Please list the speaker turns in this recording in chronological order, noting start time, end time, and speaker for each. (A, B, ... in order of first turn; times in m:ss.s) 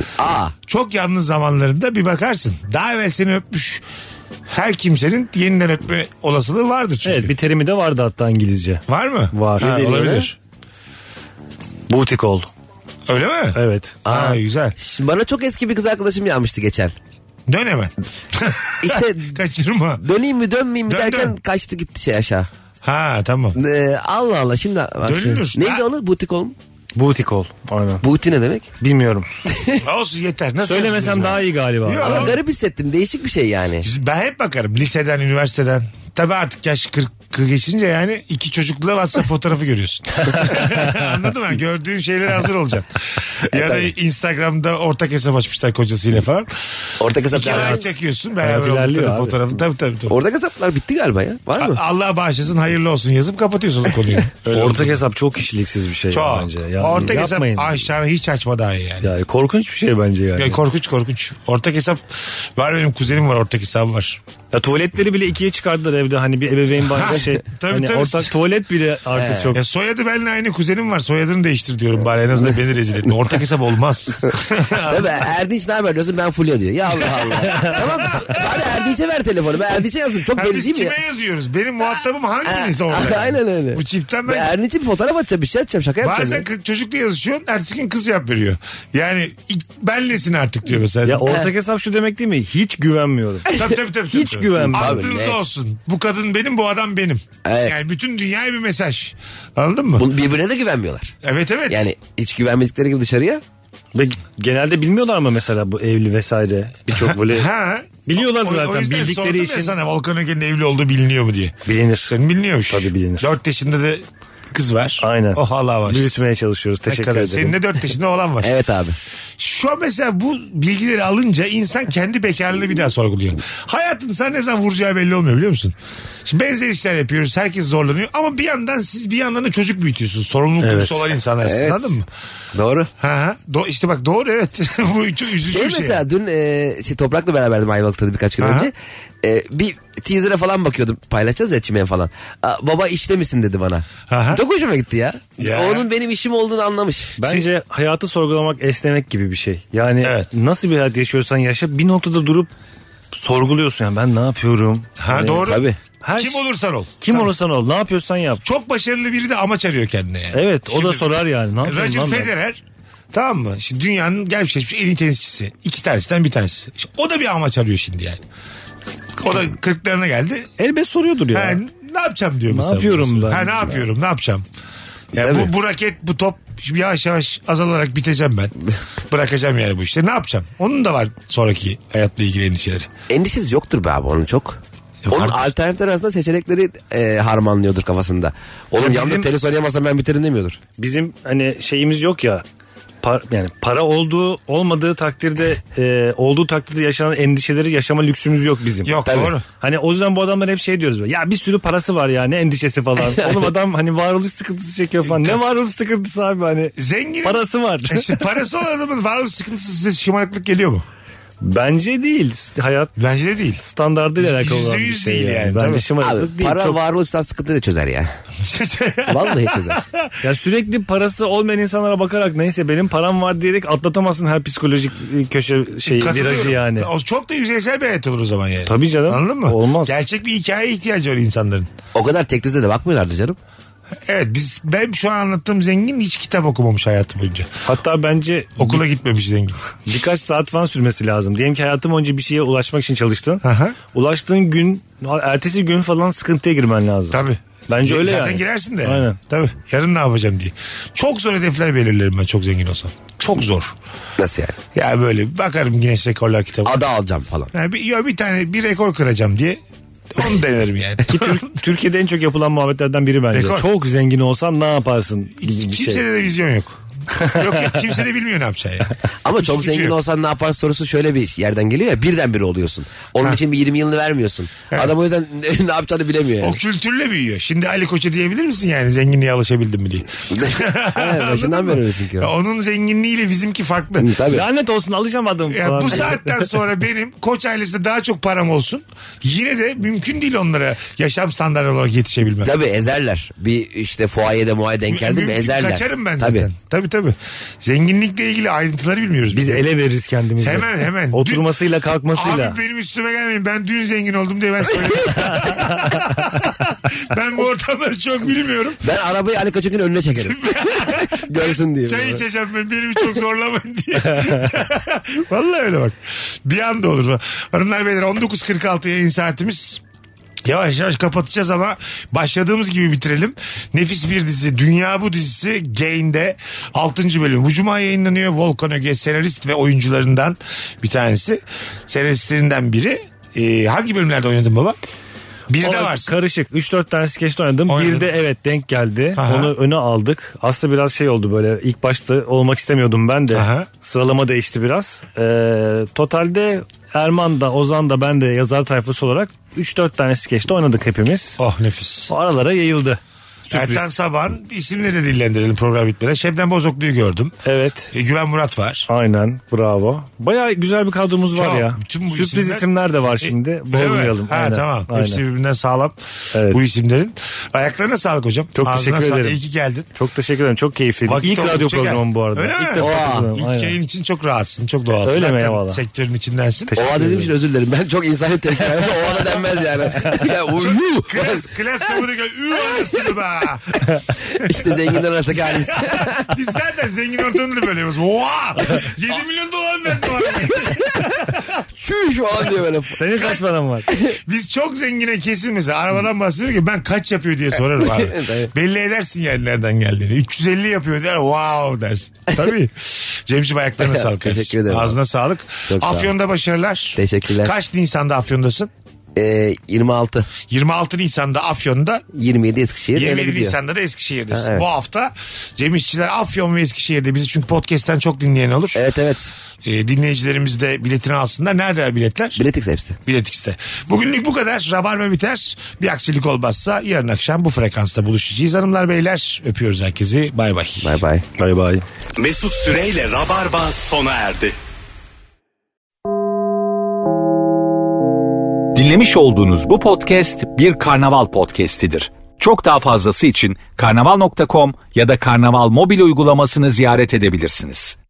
0:00.2-0:00.5 A
0:00.6-0:03.8 B
0:04.5-0:07.3 B
0:07.0-0:09.7 C
0:08.9-0:10.4 B
0:09.6-0:10.3 A
0:11.9-0:12.5 C
0:13.1-0:14.7 B
0:13.5-0:14.0 C
0:14.0-0:16.9 A
0:17.5-0:20.0 B
0:18.8-0:19.4 A
0:20.0-0:22.5 A
0:20.9-0:21.3 B
0:22.8-0:23.6 B
0:23.5-0:26.6 A
0:25.0-0:25.8 B
0:26.9-0:28.0 C
0:28.0-0:28.7 A
0:28.8-0:29.3 C
0:29.5-0:29.8 A
0:29.8-0:32.4 B
0:30.6-0:32.3 C
0:32.0-0:33.9 A
0:33.8-0:46.5 B
0:40.2-0:41.0 C
0:43.5-0:43.9 A
0:47.0-0:47.9 A
0:47.3-0:50.2 B
0:47.4-0:47.9 C
0:48.4-0:49.6 C
0:50.1-0:51.8 A
0:51.6-0:55.0 B
0:54.5-0:57.8 C
0:56.1-0:59.1 B
0:59.0-1:00.6 C
1:00.4-1:04.2 B
1:04.5-1:09.6 C
1:06.9-1:08.3 B
1:09.1-1:09.6 A
1:09.5-1:15.2 B
1:14.9-1:20.9 A
1:17.2-1:18.5 B
1:20.3-1:24.5 B
1:22.4-1:26.4 A
1:26.0-1:31.3 B
1:31.0-1:33.5 C
1:31.2-1:31.5 A
1:33.5-1:33.8 A
1:33.5-1:40.0 B
1:34.1-1:35.1 C
1:34.6-1:35.4 A
1:37.4-1:37.8 A
1:40.0-1:41.2 A
1:41.2-1:41.8 B
1:41.7-1:43.4 A
1:43.9-1:47.5 C
1:47.0-1:56.2 B
1:48.0-1:49.7 C
1:51.6-1:52.1 C
1:52.7-1:53.3 C
1:55.0-1:57.6 C
1:56.9-1:58.5 B
1:58.4-1:59.0 A
1:59.4-2:12.1 B
2:10.6-2:11.1 C
2:11.4-2:12.0 A
2:12.5-2:12.9 A
2:13.0-2:16.0 B
2:15.4-2:27.2 A
2:18.4-2:18.7 B
2:24.1-2:24.4 B
2:25.4-2:25.8 B
2:27.2-2:32.5 C
2:33.1-2:35.5 C
2:35.0-2:37.3 B
2:35.3-2:35.8 A
2:36.0-2:36.5 C
2:37.0-2:38.4 C
2:38.4-2:42.6 B
2:40.3-2:42.3 C
2:43.1-2:48.2 B
2:49.2-2:50.5 B
2:50.6-2:51.6 C
2:51.3-2:54.4 B
2:52.5-2:53.8 C
2:55.1-2:58.5 B
2:55.2-2:55.5 A
2:59.1-3:02.9 B
3:03.1-3:10.6 A
3:05.1-3:05.5 B
3:08.8-3:09.3 C
3:10.8-3:12.4 C
3:13.0-3:18.9 C
3:18.8-3:19.4 B
3:19.0-3:19.3 A
3:19.6-3:26.7 C
3:23.1-3:23.5 A
3:25.1-3:25.4 B
3:26.8-3:30.8 B
3:27.2-3:28.1 C
3:31.4-3:32.9 C
3:33.0-3:33.6 B
3:33.6-3:36.8 C
3:34.2-3:35.8 B
3:36.0-3:38.2 A
3:38.4-3:40.1 B
3:39.1-3:39.8 A
3:40.2-3:46.9 C
3:45.8-3:51.7 B
3:48.6-3:50.0 C
3:51.9-3:53.4 A
3:54.0-3:57.5 B
3:57.6-3:58.8 C
3:58.6-3:59.6 B
3:59.9-4:09.2 C
4:03.4-4:03.8 B
4:07.1-4:13.7 B
4:14.2-4:14.6 A
4:14.7-4:16.7 B
4:16.6-4:17.5 A
4:17.5-4:19.6 B
4:20.1-4:21.5 B
4:21.1-4:26.0 C
4:23.3-4:23.7 B
4:25.4-4:30.0 B
4:27.2-4:27.4 C
4:29.2-4:36.6 A
4:36.4-4:44.1 B
4:40.3-4:42.3 A
4:44.0-4:44.4 A
4:44.3-4:46.3 C
4:45.5-4:52.5 B
4:52.4-4:56.5 A
4:54.9-4:59.6 B
4:59.3-5:02.6 C
5:00.4-5:01.5 B
5:02.1-5:08.8 B
5:05.2-5:05.9 C
5:08.8-5:12.2 A
5:10.2-5:19.8 B
5:20.4-5:34.8 B
5:35.5-5:36.1 B
5:35.6-5:51.4 C
5:37.7-5:38.1 B
5:39.2-5:39.5 B
5:43.3-5:43.7 B
5:51.4-5:52.1 B
5:52.1-5:53.9 C
5:53.5-5:57.4 B
5:57.4-5:57.9 C
5:57.9-5:58.9 B
5:58.9-6:05.2 C
6:01.3-6:02.7 B
6:03.2-6:06.0 B
6:06.3-6:06.6 C
6:06.5-6:09.9 B
6:08.5-6:09.4 C
6:09.9-6:13.8 C
6:11.0-6:16.8 B
6:12.8-6:13.3 A
6:15.0-6:15.8 C
6:16.7-6:17.3 C
6:16.8-6:21.5 A
6:18.6-6:20.2 C
6:20.5-6:23.8 B
6:24.3-6:24.7 B
6:24.4-6:26.3 A
6:25.3-6:31.4 B
6:31.7-6:33.0 A
6:32.9-6:33.9 C
6:33.2-6:33.4 B
6:34.0-6:48.7 B
6:37.8-6:38.5 A
6:43.8-6:45.0 A
6:45.7-6:46.1 A
6:47.0-6:47.5 A
6:49.1-6:50.3 A
6:50.5-6:52.0 B
6:52.1-6:53.6 A
6:52.9-6:58.8 B
6:54.3-6:54.6 A
6:58.7-6:59.3 A
6:59.6-7:02.4 B
7:02.4-7:03.0 A
7:03.0-7:11.0 B
7:10.8-7:11.2 A
7:11.4-7:11.8 C
7:12.2-7:14.6 D
7:18.7-7:28.0 E